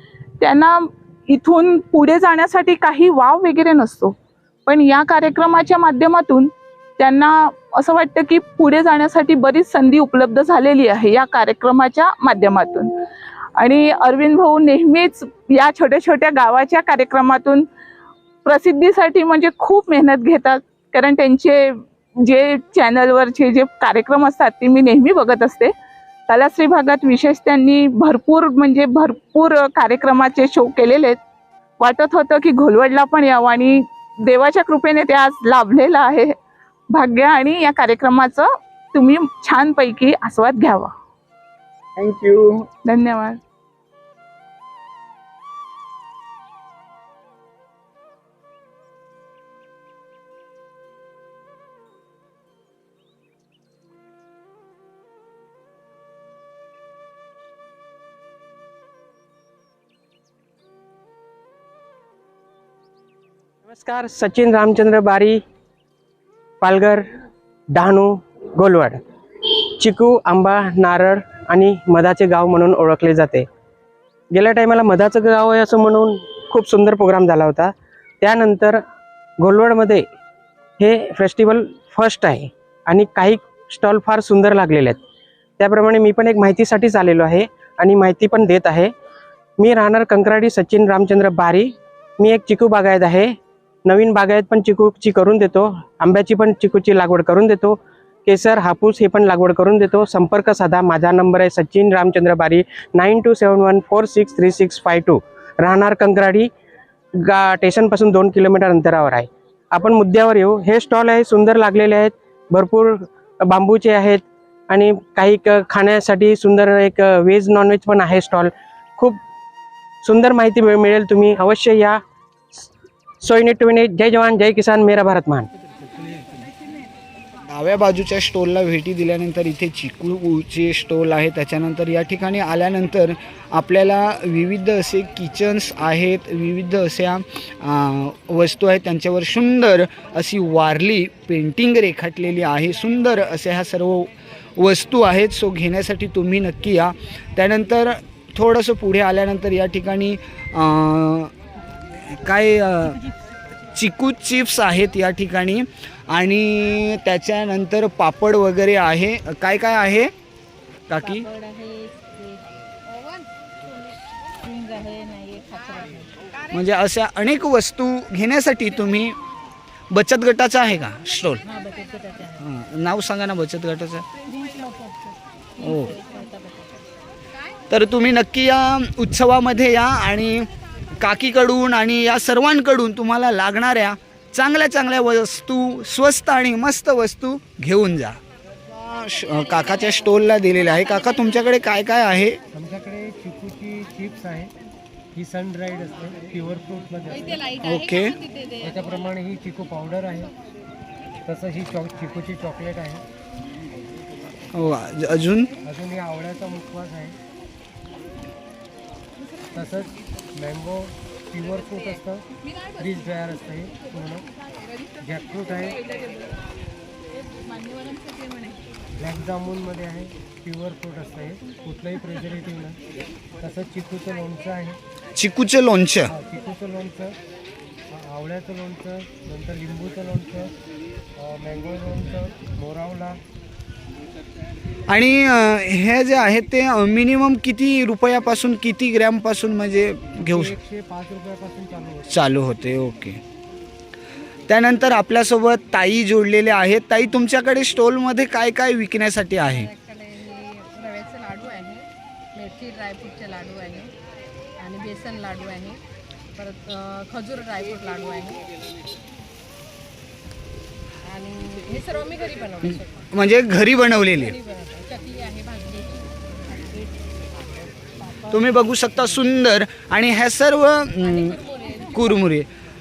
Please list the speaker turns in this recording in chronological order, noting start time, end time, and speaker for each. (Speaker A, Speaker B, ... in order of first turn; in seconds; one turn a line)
Speaker A: 0.4-12.9
Speaker A: 13.6-17.7
Speaker A: 18.4-25.7
Speaker A: 26.3-31.2
Speaker A: 31.8-36.4
Speaker A: 36.9-40.9
Speaker B: 42.0-42.6
Speaker A: 42.8-43.4
Speaker C: 63.6-65.4
Speaker C: 66.6-67.1
Speaker C: 67.7-73.5
Speaker C: 74.3-78.8
Speaker C: 79.4-80.1
Speaker C: 80.8-85.0
Speaker C: 85.6-88.9
Speaker C: 89.6-106.5
Speaker C: 107.2-119.2
Speaker C: 120.0-122.0
Speaker C: 123.2-125.5
Speaker B: 127.5-151.3
Speaker B: 152.1-153.0
Speaker B: 153.7-160.1
Speaker B: 160.9-161.3
Speaker D: 161.0-163.3
Speaker D: 164.4-166.1
Speaker B: 166.5-169.2
Speaker B: 169.9-171.4
Speaker D: 171.4-172.4
Speaker B: 172.4-174.1
Speaker D: 174.3-174.9
Speaker D: 175.6-176.8
Speaker B: 175.6-175.9
Speaker B: 177.7-192.4
Speaker E: 192.5-194.5
Speaker E: 195.1-197.6
Speaker D: 197.3-198.8
Speaker B: 197.6-198.2
Speaker E: 198.6-200.3
Speaker E: 201.2-203.0
Speaker B: 204.5-205.5
Speaker E: 205.6-207.2
Speaker E: 209.5-212.2
Speaker E: 212.8-214.3
Speaker E: 215.0-215.8
Speaker D: 217.3-218.6
Speaker E: 218.9-222.8
Speaker E: 223.4-224.8
Speaker B: 225.2-226.1
Speaker E: 226.1-227.2
Speaker E: 227.9-230.5
Speaker E: 231.2-233.2
Speaker B: 234.9-240.6
Speaker E: 240.2-242.1
Speaker B: 242.1-243.2
Speaker B: 244.5-249.7
Speaker D: 249.4-253.9
Speaker D: 254.6-255.8
Speaker D: 256.4-258.5
Speaker D: 261.1-262.9
Speaker B: 263.1-264.4
Speaker D: 264.1-266.9
Speaker D: 268.0-268.4
Speaker B: 268.3-271.4
Speaker D: 271.0-272.2
Speaker B: 271.9-272.5